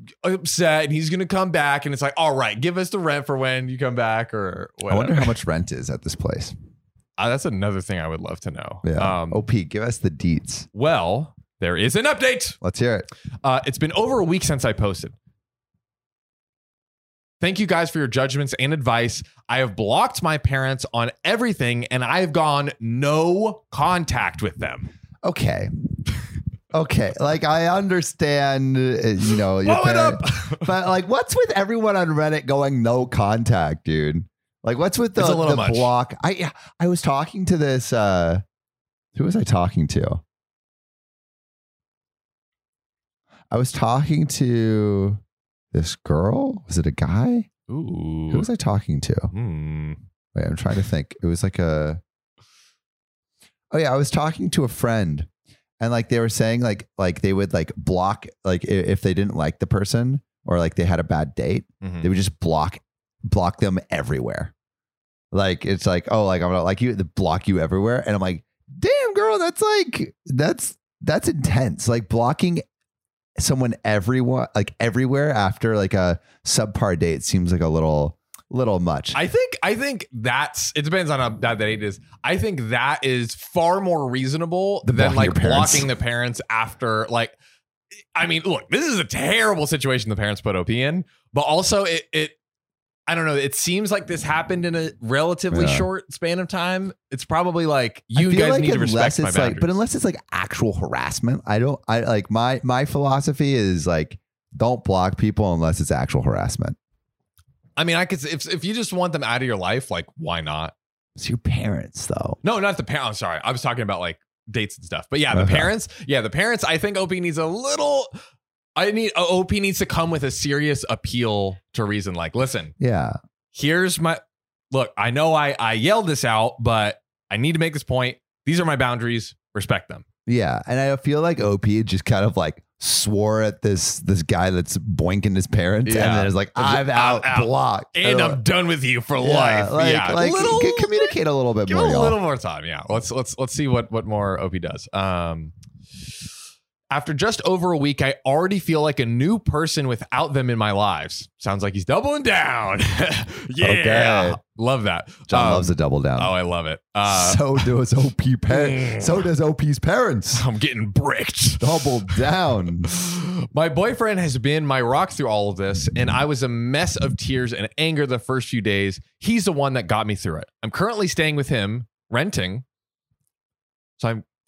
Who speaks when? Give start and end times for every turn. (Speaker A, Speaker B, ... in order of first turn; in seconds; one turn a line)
Speaker A: 0.2-5.3
Speaker B: 4.9-6.5
Speaker A: 7.2-9.4
Speaker B: 8.8-10.7
Speaker A: 10.7-12.6
Speaker B: 12.6-13.1
Speaker A: 13.4-15.2
Speaker A: 17.4-24.9
Speaker B: 25.2-25.7
Speaker B: 26.7-38.4
Speaker A: 29.6-30.7
Speaker A: 35.2-35.9
Speaker B: 39.1-40.2
Speaker B: 43.5-45.2
Speaker B: 45.7-47.5
Speaker A: 47.7-48.5
Speaker B: 48.3-49.3
Speaker A: 49.3-50.0
Speaker B: 50.4-52.0
Speaker B: 53.7-55.3
Speaker B: 55.8-64.5
Speaker A: 61.8-62.1
Speaker B: 65.3-72.6
Speaker B: 73.4-79.2
Speaker A: 79.1-87.3
Speaker B: 84.8-85.9
Speaker A: 88.2-92.4
Speaker A: 93.1-99.7
Speaker B: 95.5-95.9
Speaker B: 98.2-106.8
Speaker A: 107.8-110.7
Speaker B: 111.2-112.4
Speaker A: 112.4-118.1
Speaker B: 115.3-115.7
Speaker A: 118.8-122.7
Speaker B: 122.8-123.2
Speaker A: 123.5-130.0
Speaker B: 130.3-138.4
Speaker A: 135.8-141.2
Speaker B: 139.2-142.2
Speaker A: 141.7-145.5
Speaker A: 146.9-157.7
Speaker B: 153.6-154.4
Speaker B: 155.3-156.3
Speaker B: 157.1-160.4
Speaker A: 158.5-159.3
Speaker A: 160.4-162.2
Speaker B: 161.6-162.9
Speaker A: 162.9-172.7
Speaker A: 174.0-174.2